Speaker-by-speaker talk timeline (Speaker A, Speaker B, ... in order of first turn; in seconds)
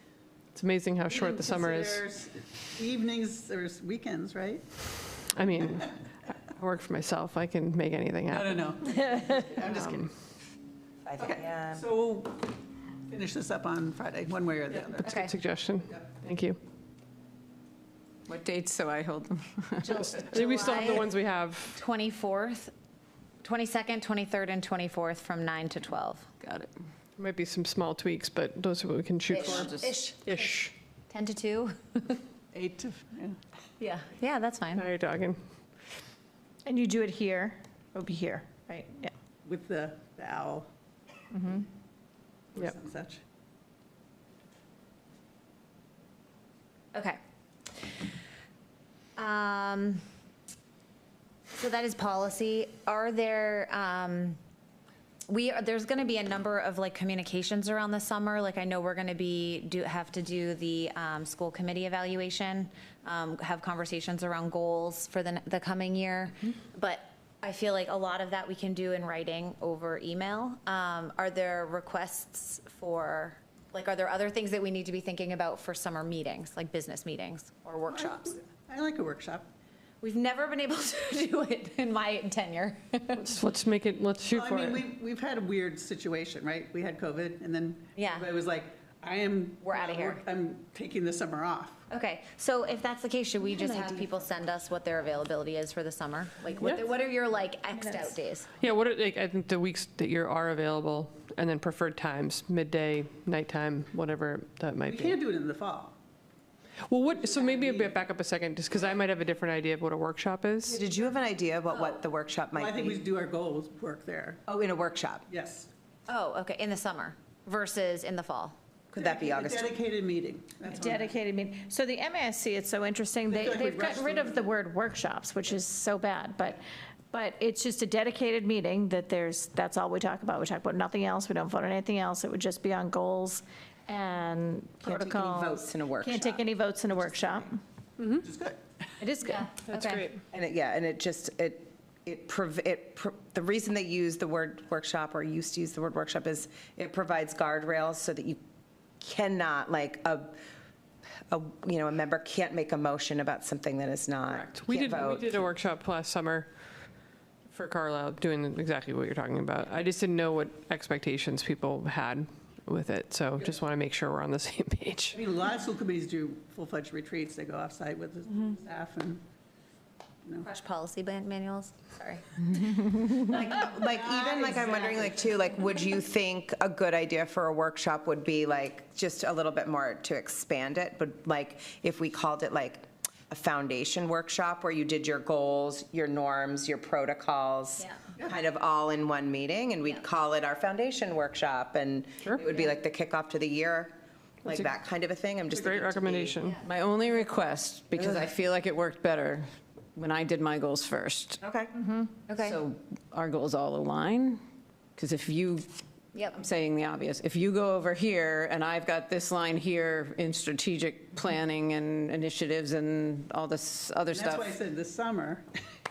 Speaker A: 0.5-2.0, 5.3-10.1, 15.0-16.6, 20.0-21.8, 27.2-30.7, 34.8-35.4, 83.2-84.9, 98.6-105.2, 106.9-110.8, 139.7-140.1, 154.3-156.9, 157.5-165.2, 195.5-196.6
Speaker B: 1.1-4.8, 8.3-10.1, 11.2-12.6, 13.1-15.1, 32.5-33.4, 39.5-40.7, 42.5-43.2, 77.9-79.5, 84.3-91.8, 104.9-106.0, 107.1-108.0, 112.6-114.4, 115.3-115.7, 119.0-121.2, 123.3-124.4, 136.9-137.5, 138.0-139.0, 165.1-169.2, 173.8-175.3, 214.1-215.4
Speaker C: 11.0-11.9, 93.6-94.0, 110.7-113.0, 114.5-115.3, 118.9-119.7, 134.9-136.4, 140.3-148.4, 149.0-150.4, 151.3-155.4, 173.2-196.4, 201.4-201.7
Speaker D: 15.1-15.3, 19.8-21.1, 21.8-22.7, 23.4-26.3, 29.3-32.2, 33.8-34.9, 46.9-47.2, 49.2-50.0, 51.5-54.4, 55.3-78.4, 80.0-83.3, 88.0-88.3, 89.6-90.2, 91.9-98.5, 111.7-112.0, 116.1-118.5, 139.2-140.1, 170.4-173.0, 202.3-202.6
Speaker E: 18.3-20.1, 26.4-26.7, 29.4-29.9, 196.6-201.4, 202.3-204.4, 205.0-214.6
Speaker F: 36.6-39.1, 41.3-41.7, 97.7-98.1, 120.7-126.6, 127.1-137.5, 139.0-139.6, 201.7-202.1